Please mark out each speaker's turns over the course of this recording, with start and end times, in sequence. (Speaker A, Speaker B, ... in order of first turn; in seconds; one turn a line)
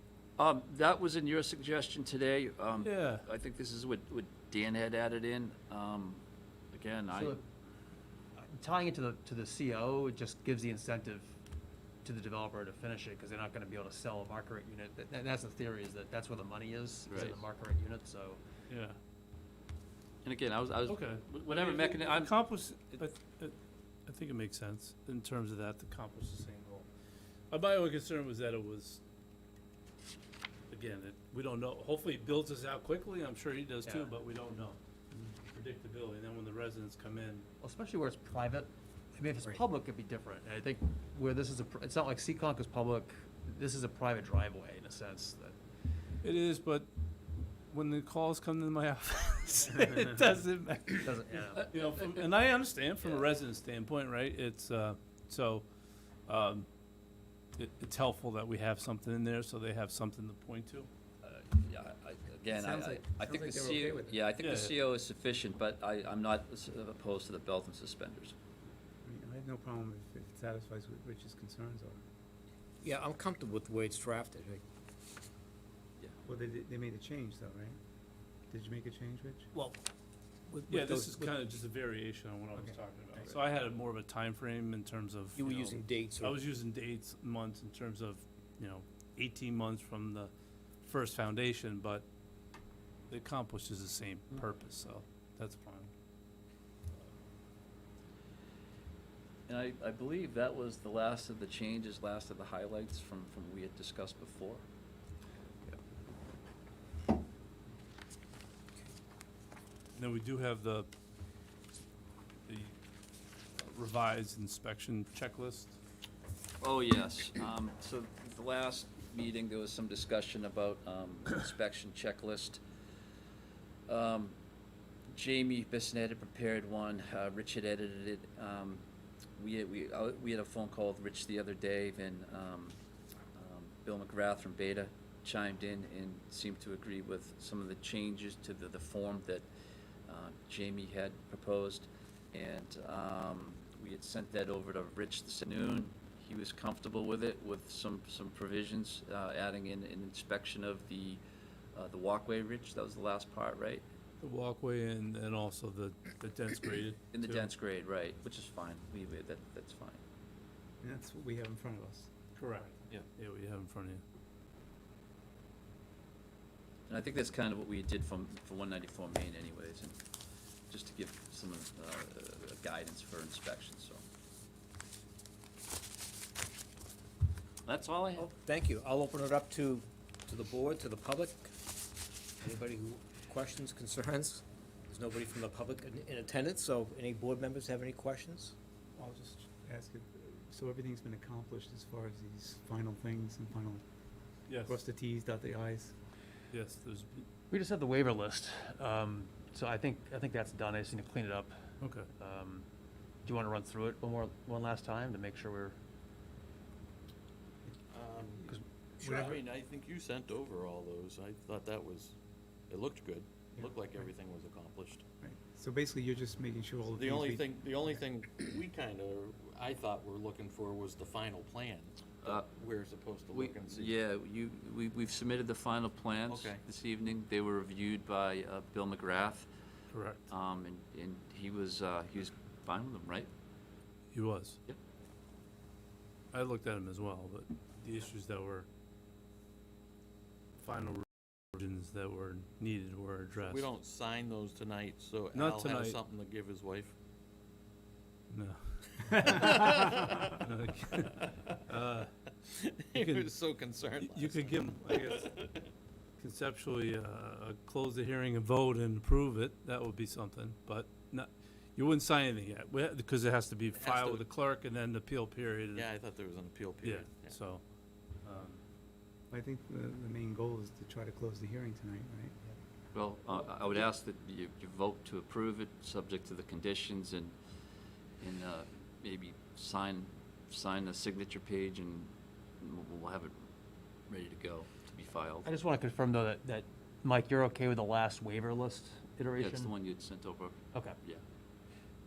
Speaker A: 0.4-7.4
Speaker B: 2.8-3.3
Speaker C: 7.1-7.4
Speaker C: 8.3-11.4
Speaker C: 12.0-18.4
Speaker A: 17.1-17.4
Speaker B: 18.7-19.0
Speaker A: 20.2-22.4
Speaker B: 20.9-26.9
Speaker B: 27.5-29.0
Speaker B: 30.7-34.8
Speaker B: 35.5-37.5
Speaker C: 37.6-45.6
Speaker B: 46.2-46.9
Speaker B: 47.7-51.0
Speaker C: 49.6-52.2
Speaker B: 51.6-55.7
Speaker B: 56.3-56.7
Speaker B: 57.6-60.9
Speaker A: 61.2-68.3
Speaker D: 62.5-64.2
Speaker B: 64.4-64.8
Speaker D: 69.0-72.1
Speaker E: 72.8-74.6
Speaker D: 76.2-77.8
Speaker D: 78.5-79.5
Speaker E: 80.5-81.3
Speaker B: 80.7-90.3
Speaker D: 82.5-83.2
Speaker E: 85.3-86.4
Speaker B: 90.8-92.1
Speaker B: 93.1-95.9
Speaker A: 99.5-104.7
Speaker B: 110.0-110.9
Speaker B: 112.5-112.8
Speaker B: 113.6-115.8
Speaker A: 116.6-122.6
Speaker A: 123.9-124.4
Speaker A: 125.1-128.8
Speaker A: 129.4-132.8
Speaker A: 133.3-139.5
Speaker A: 140.1-151.2
Speaker A: 151.8-153.8
Speaker B: 154.2-157.5
Speaker A: 157.1-160.0
Speaker D: 160.8-162.1
Speaker B: 162.4-164.0
Speaker A: 166.9-170.0
Speaker A: 170.7-174.0
Speaker A: 177.7-178.3
Speaker E: 178.2-181.7
Speaker E: 182.4-188.6
Speaker D: 189.0-193.8
Speaker B: 194.5-194.8
Speaker D: 194.5-195.9
Speaker B: 196.5-197.3
Speaker C: 197.5-202.7
Speaker B: 201.8-202.1
Speaker C: 203.2-205.8
Speaker F: 207.9-212.2
Speaker C: 208.5-209.3
Speaker D: 209.0-209.4
Speaker F: 212.7-215.0
Speaker D: 215.2-218.0
Speaker F: 216.9-224.0
Speaker A: 222.2-222.5
Speaker A: 223.3-229.5
Speaker F: 226.3-226.6
Speaker B: 229.9-230.3
Speaker A: 230.3-233.3
Speaker B: 234.1-234.6
Speaker B: 236.3-238.7
Speaker B: 240.6-243.7
Speaker F: 243.3-246.9
Speaker B: 245.3-246.0
Speaker B: 248.3-252.2
Speaker F: 249.3-250.2
Speaker F: 252.4-255.7
Speaker B: 252.9-253.4
Speaker B: 254.0-255.4
Speaker B: 256.2-265.9
Speaker F: 263.7-264.3
Speaker F: 265.7-267.4
Speaker B: 266.8-267.6
Speaker B: 268.2-268.6
Speaker D: 269.3-272.6
Speaker A: 272.9-277.4
Speaker A: 278.2-283.5
Speaker A: 284.1-285.5
Speaker C: 285.4-289.7
Speaker A: 289.4-291.2
Speaker C: 290.7-291.0